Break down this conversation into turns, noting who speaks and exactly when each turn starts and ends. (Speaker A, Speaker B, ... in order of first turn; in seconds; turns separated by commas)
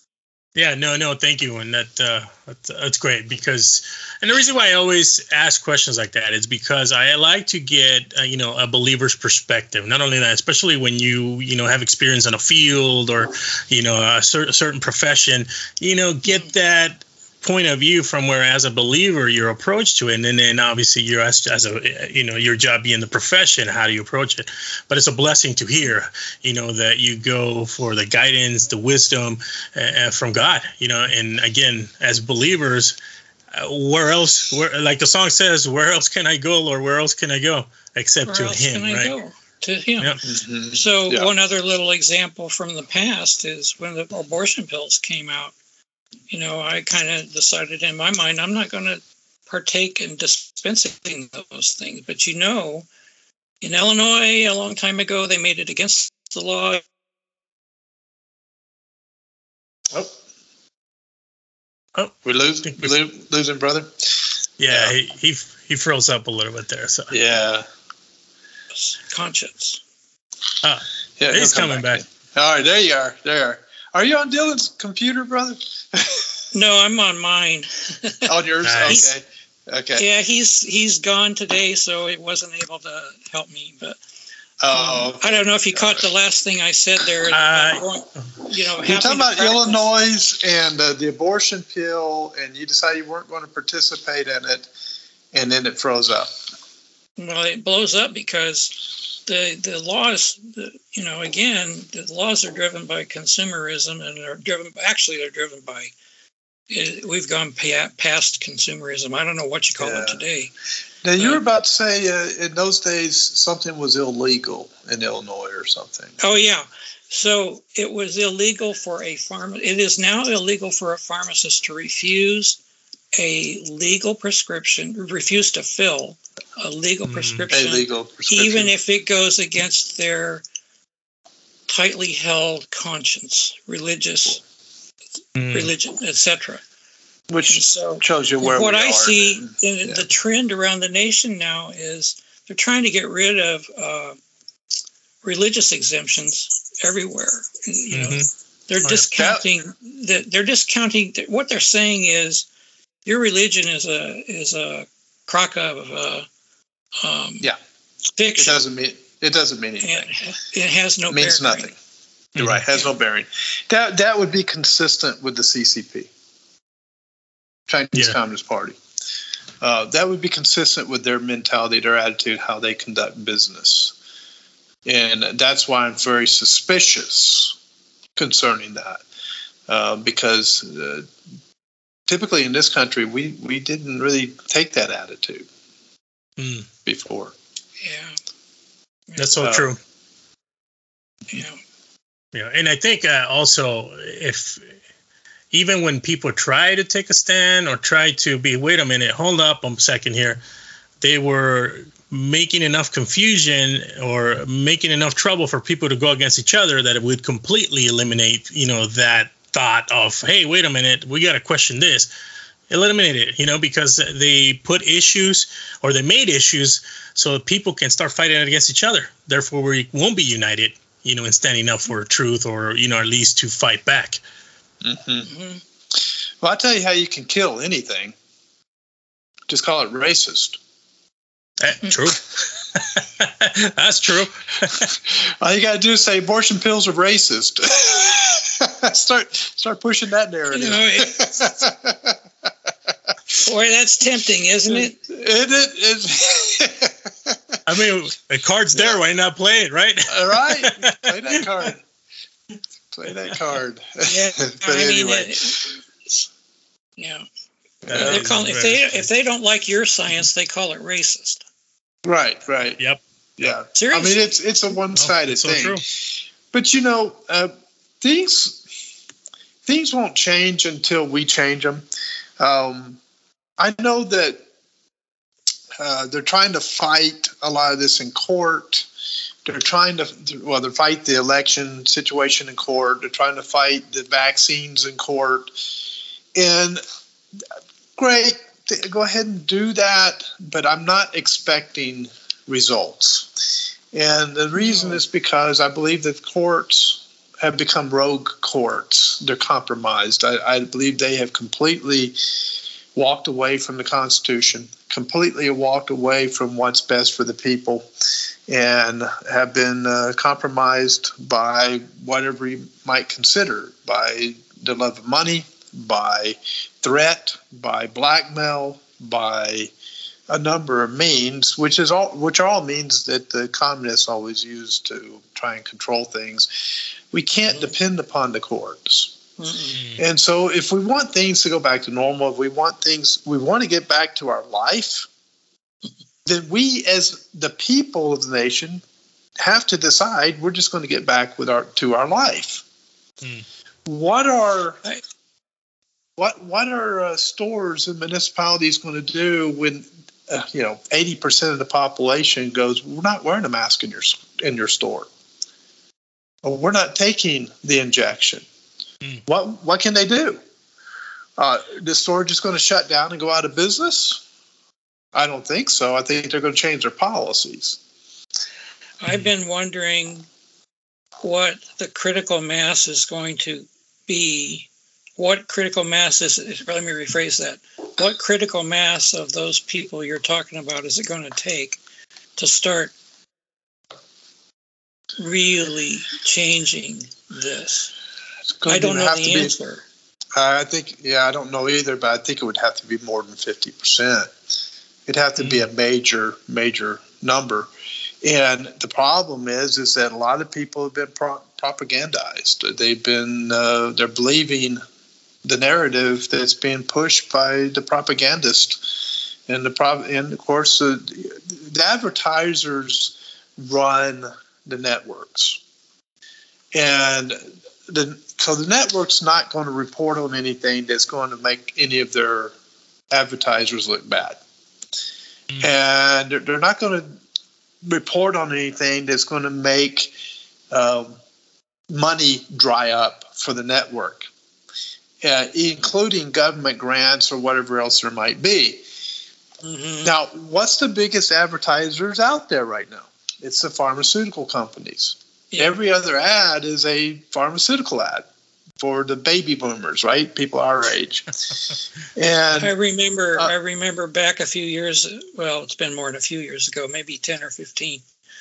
Speaker A: 0.6-33.0, Speaker B: 16.2-16.5, Speaker A: 33.5-39.1, Speaker B: 38.2-40.1, Speaker C: 40.2-41.3, Speaker B: 40.7-45.5, Speaker B: 46.3-52.9, Speaker B: 53.6-56.8, Speaker C: 62.2-63.9, Speaker A: 64.6-67.2, Speaker C: 64.7-64.9, Speaker C: 67.1-67.7, Speaker B: 68.8-69.8, Speaker A: 70.6-72.0, Speaker C: 71.2-76.2, Speaker B: 76.5-78.3, Speaker C: 78.2-80.0, Speaker A: 78.6-79.0, Speaker B: 79.9-84.0, Speaker C: 84.6-86.0, Speaker B: 84.7-89.9, Speaker A: 87.3-87.8, Speaker C: 88.8-94.7, Speaker C: 95.3-96.3, Speaker B: 97.2-105.9, Speaker B: 106.7-110.5, Speaker C: 109.8-110.2, Speaker C: 111.0-116.2, Speaker B: 116.2-122.6, Speaker B: 123.2-130.4, Speaker A: 127.0-127.4, Speaker C: 127.5-128.7, Speaker B: 131.7-134.4, Speaker A: 135.3-135.7, Speaker B: 135.5-136.6, Speaker C: 137.3-140.1, Speaker B: 137.5-144.2, Speaker B: 145.2-152.4, Speaker A: 147.9-148.3, Speaker C: 149.1-149.4, Speaker B: 153.0-156.3, Speaker B: 157.0-157.5, Speaker B: 158.2-158.6, Speaker C: 158.4-160.1, Speaker B: 159.8-161.7, Speaker C: 161.1-161.7, Speaker A: 162.3-162.6, Speaker C: 162.3-166.1, Speaker C: 167.7-168.8, Speaker C: 169.6-173.9, Speaker C: 174.8-177.6, Speaker C: 178.1-179.0, Speaker C: 179.7-181.1, Speaker C: 182.1-185.5, Speaker A: 186.4-186.7, Speaker C: 186.8-187.3, Speaker B: 187.8-188.2, Speaker B: 189.1-189.4, Speaker A: 189.2-189.8, Speaker C: 189.4-189.7, Speaker B: 191.3-191.6, Speaker A: 192.3-194.6, Speaker A: 195.5-200.4, Speaker A: 201.0-212.1, Speaker A: 212.7-224.2, Speaker C: 224.8-225.3, Speaker B: 225.2-225.6, Speaker C: 226.4-228.1, Speaker C: 229.5-230.6, Speaker A: 231.6-234.9, Speaker C: 234.8-243.1, Speaker B: 240.5-241.2, Speaker B: 243.4-245.0, Speaker C: 244.7-247.6, Speaker A: 247.7-251.0, Speaker C: 250.1-251.8, Speaker C: 252.9-255.7, Speaker B: 254.1-255.7, Speaker B: 257.0-257.2, Speaker A: 257.9-259.1, Speaker C: 257.9-258.2, Speaker B: 257.9-261.4, Speaker C: 262.0-262.8, Speaker A: 262.8-263.6, Speaker C: 263.4-265.8, Speaker B: 263.8-264.3, Speaker A: 264.9-265.8, Speaker C: 266.5-268.6, Speaker C: 269.6-271.9, Speaker C: 272.4-273.0, Speaker C: 273.6-274.4, Speaker C: 275.8-278.9, Speaker C: 279.4-285.5, Speaker C: 286.3-286.8, Speaker C: 288.0-293.4, Speaker C: 293.9-302.4, Speaker B: 294.6-295.0, Speaker C: 302.9-307.9, Speaker C: 308.5-319.7, Speaker C: 320.3-329.2, Speaker B: 329.4-329.8, Speaker C: 330.0-335.1, Speaker C: 336.2-338.8, Speaker C: 339.4-342.6, Speaker C: 343.9-344.8, Speaker C: 346.2-355.1, Speaker C: 356.4-358.4, Speaker C: 359.2-360.4, Speaker C: 361.4-364.2, Speaker C: 365.1-367.8, Speaker B: 369.0-370.3, Speaker B: 371.2-381.8, Speaker B: 382.4-382.9, Speaker B: 385.2-387.9, Speaker C: 388.6-389.5, Speaker B: 388.6-389.8, Speaker C: 390.4-394.3, Speaker C: 395.1-397.7, Speaker C: 398.2-404.8, Speaker C: 405.4-415.6, Speaker C: 416.7-422.6, Speaker C: 423.1-424.4, Speaker C: 425.6-427.2, Speaker C: 427.8-430.1, Speaker C: 430.7-431.2, Speaker C: 431.9-434.3, Speaker C: 435.2-438.8, Speaker B: 439.6-440.1, Speaker C: 440.0-448.3, Speaker C: 448.8-451.3, Speaker C: 452.1-452.7, Speaker B: 452.6-458.0